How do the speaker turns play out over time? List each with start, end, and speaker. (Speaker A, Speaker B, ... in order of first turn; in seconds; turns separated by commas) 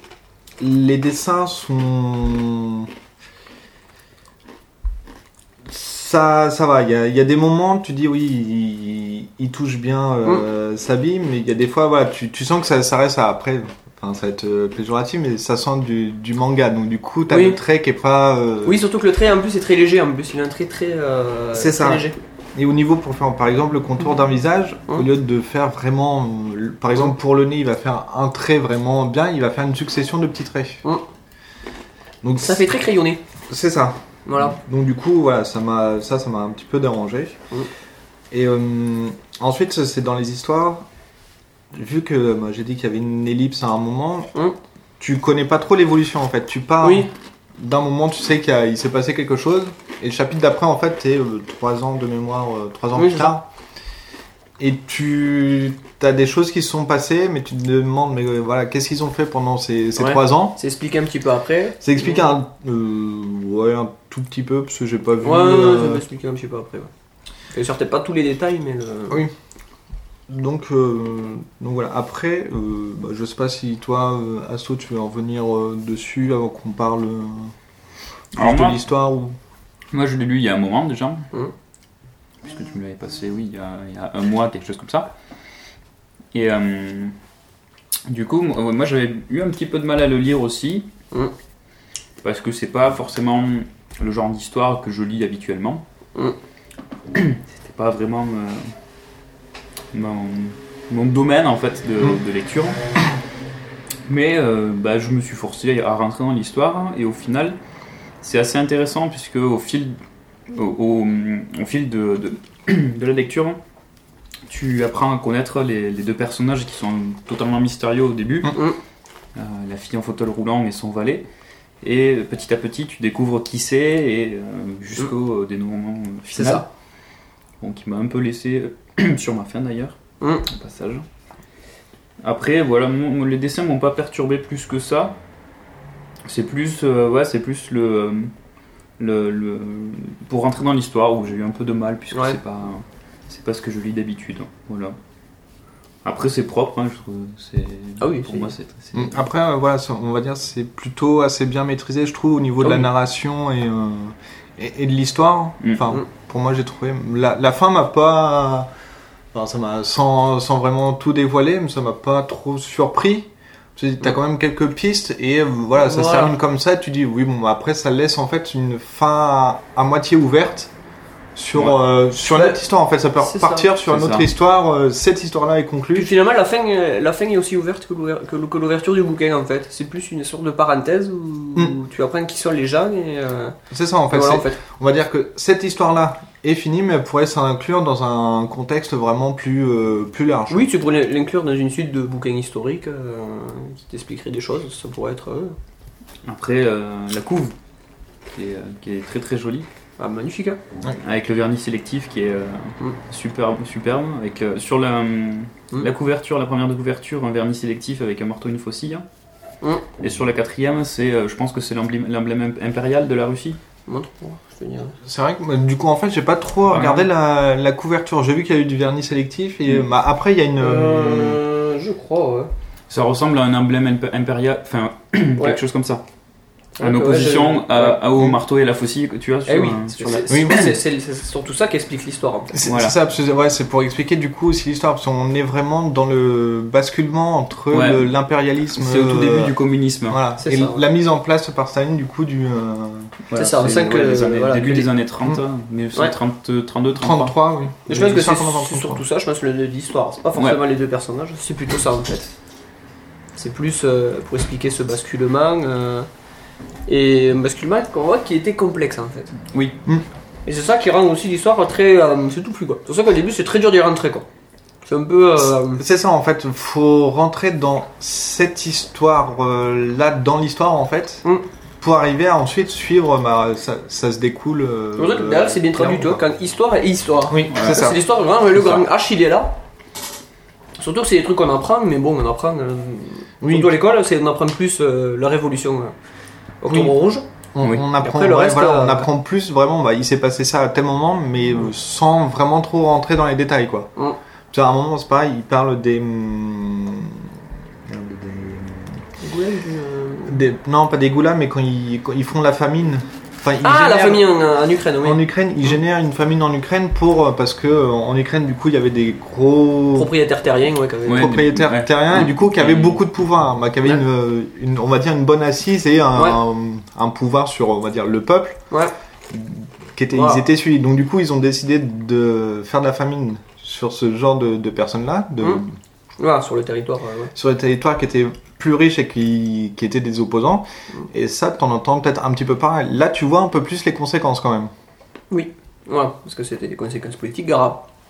Speaker A: 0.6-2.9, Speaker A: 5.7-18.8, Speaker B: 17.3-17.6, Speaker B: 18.6-22.2, Speaker A: 21.5-30.8, Speaker A: 32.2-32.7, Speaker B: 32.4-33.2, Speaker A: 33.5-37.4, Speaker B: 34.2-34.6, Speaker A: 38.3-40.9, Speaker A: 41.7-44.3, Speaker A: 45.0-53.5, Speaker B: 46.8-47.1, Speaker B: 52.9-53.4, Speaker A: 54.6-60.6, Speaker B: 60.0-62.2, Speaker A: 61.8-66.0, Speaker B: 65.2-66.9, Speaker B: 67.5-69.2, Speaker A: 70.3-77.5, Speaker A: 78.3-79.3, Speaker C: 78.3-78.8, Speaker C: 79.9-81.3, Speaker C: 82.4-85.1, Speaker C: 86.3-87.1, Speaker C: 88.1-90.9, Speaker C: 92.2-95.8, Speaker C: 97.1-98.7, Speaker C: 99.9-102.8, Speaker C: 104.0-107.6, Speaker C: 108.2-110.0, Speaker C: 110.5-113.6, Speaker C: 114.5-118.5, Speaker B: 118.5-118.8, Speaker C: 119.3-121.3, Speaker C: 121.8-126.7, Speaker B: 126.3-126.6, Speaker C: 127.6-131.0, Speaker B: 130.2-130.4, Speaker C: 132.2-135.2, Speaker C: 136.2-138.3, Speaker C: 139.0-145.0, Speaker B: 142.1-142.4, Speaker C: 146.0-149.2, Speaker B: 148.0-148.5, Speaker A: 148.9-158.7, Speaker A: 159.3-170.7, Speaker B: 165.8-166.3, Speaker A: 171.3-176.1, Speaker C: 171.5-171.8, Speaker B: 172.2-172.6, Speaker B: 173.2-173.7, Speaker C: 173.9-174.3, Speaker B: 175.9-183.6, Speaker A: 183.7-190.7, Speaker B: 184.1-184.6, Speaker B: 190.5-195.6, Speaker C: 196.2-197.5, Speaker C: 198.3-199.7, Speaker B: 200.0-200.6, Speaker C: 201.0-209.1, Speaker C: 210.0-213.6, Speaker B: 213.9-214.9, Speaker A: 215.0-221.4, Speaker C: 216.7-217.1, Speaker B: 220.6-222.5, Speaker C: 222.9-226.0, Speaker B: 226.8-228.0, Speaker C: 226.8-230.7, Speaker B: 229.4-232.6, Speaker A: 230.3-230.7, Speaker A: 232.5-243.1, Speaker C: 232.6-233.0, Speaker C: 237.7-238.1, Speaker C: 238.7-240.2, Speaker B: 240.4-240.8, Speaker C: 243.3-247.3, Speaker B: 243.3-244.9, Speaker A: 246.9-249.0, Speaker B: 247.9-252.3, Speaker B: 253.3-256.1, Speaker B: 256.9-259.3, Speaker C: 259.5-259.8, Speaker B: 260.4-264.2, Speaker B: 264.8-265.8, Speaker A: 265.6-271.2, Speaker A: 271.8-276.2, Speaker B: 274.9-279.6, Speaker A: 277.3-278.0, Speaker C: 278.6-278.8, Speaker B: 280.8-285.9, Speaker A: 283.4-283.7, Speaker B: 286.6-287.2, Speaker A: 286.7-286.9, Speaker A: 287.5-293.9, Speaker B: 288.0-289.1, Speaker A: 294.5-297.3, Speaker A: 297.9-299.0, Speaker B: 299.2-300.4, Speaker A: 300.3-304.3, Speaker B: 303.6-305.2, Speaker A: 305.0-310.1, Speaker B: 309.9-311.3, Speaker C: 311.1-313.0, Speaker A: 311.1-318.6, Speaker B: 316.1-316.4, Speaker A: 319.3-325.8, Speaker B: 320.1-320.4, Speaker B: 326.2-327.3, Speaker A: 327.3-334.7, Speaker B: 335.3-337.9